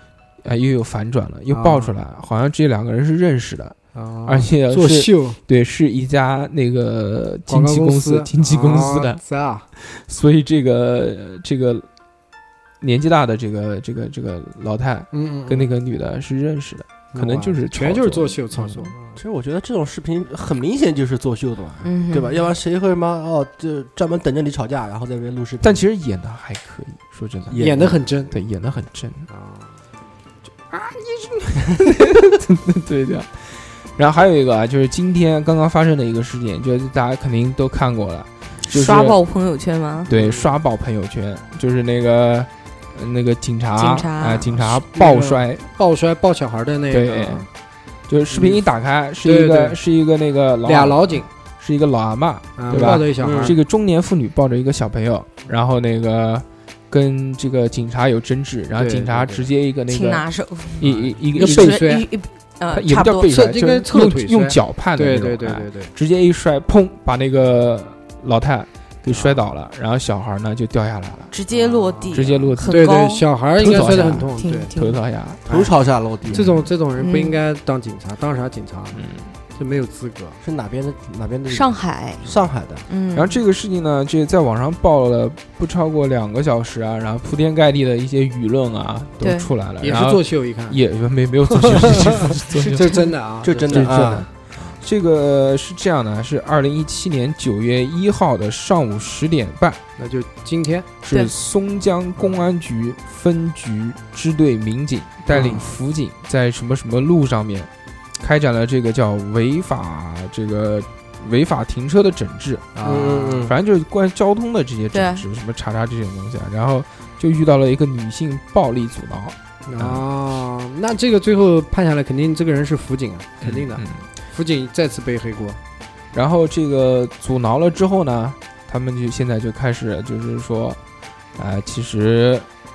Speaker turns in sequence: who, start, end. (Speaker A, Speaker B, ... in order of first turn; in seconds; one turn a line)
Speaker A: 0.4-9.2
Speaker B: 1.5-2.0
Speaker B: 3.9-5.4
Speaker B: 7.5-9.7
Speaker A: 9.8-11.9
Speaker A: 12.8-18.9
Speaker B: 15.1-15.7
Speaker B: 17.1-19.2
Speaker C: 19.1-25.8
Speaker D: 21.8-22.4
Speaker A: 25.6-29.3
Speaker C: 27.5-28.0
Speaker B: 27.6-28.3
Speaker B: 29.3-29.8
Speaker A: 30.7-39.2
Speaker D: 38.7-40.1
Speaker B: 40.1-40.5
Speaker A: 40.1-45.6
Speaker D: 43.8-44.6
Speaker B: 44.7-47.5
Speaker A: 46.9-47.5
Speaker A: 48.1-60.2
Speaker B: 48.3-48.6
Speaker B: 49.2-49.8
Speaker B: 50.6-51.3
Speaker B: 52.6-53.6
Speaker C: 52.7-53.5
Speaker B: 58.7-59.5
Speaker D: 59.9-63.3
Speaker A: 60.8-61.8
Speaker B: 60.8-62.0
Speaker A: 62.7-71.3
Speaker B: 63.3-65.9
Speaker B: 69.1-69.5
Speaker D: 71.3-73.2
Speaker B: 71.5-74.7
Speaker A: 72.1-72.9
Speaker A: 73.6-75.4
Speaker D: 73.8-75.0
Speaker C: 75.5-76.5
Speaker B: 76.3-80.4
Speaker D: 77.0-77.4
Speaker A: 78.9-79.3
Speaker C: 80.4-82.9
Speaker D: 81.5-82.2
Speaker D: 82.9-83.3
Speaker A: 83.1-93.0
Speaker D: 89.2-89.5
Speaker B: 89.8-90.8
Speaker B: 91.5-94.2
Speaker C: 93.4-94.3
Speaker A: 93.7-94.3
Speaker A: 94.8-99.8
Speaker B: 100.0-100.9
Speaker A: 101.0-107.7
Speaker B: 105.3-105.7
Speaker A: 108.2-112.7
Speaker B: 112.7-113.5
Speaker C: 112.8-113.5
Speaker A: 113.5-120.0
Speaker D: 114.9-115.2
Speaker B: 119.7-125.6
Speaker A: 123.4-124.0
Speaker A: 126.1-130.8
Speaker A: 131.3-132.4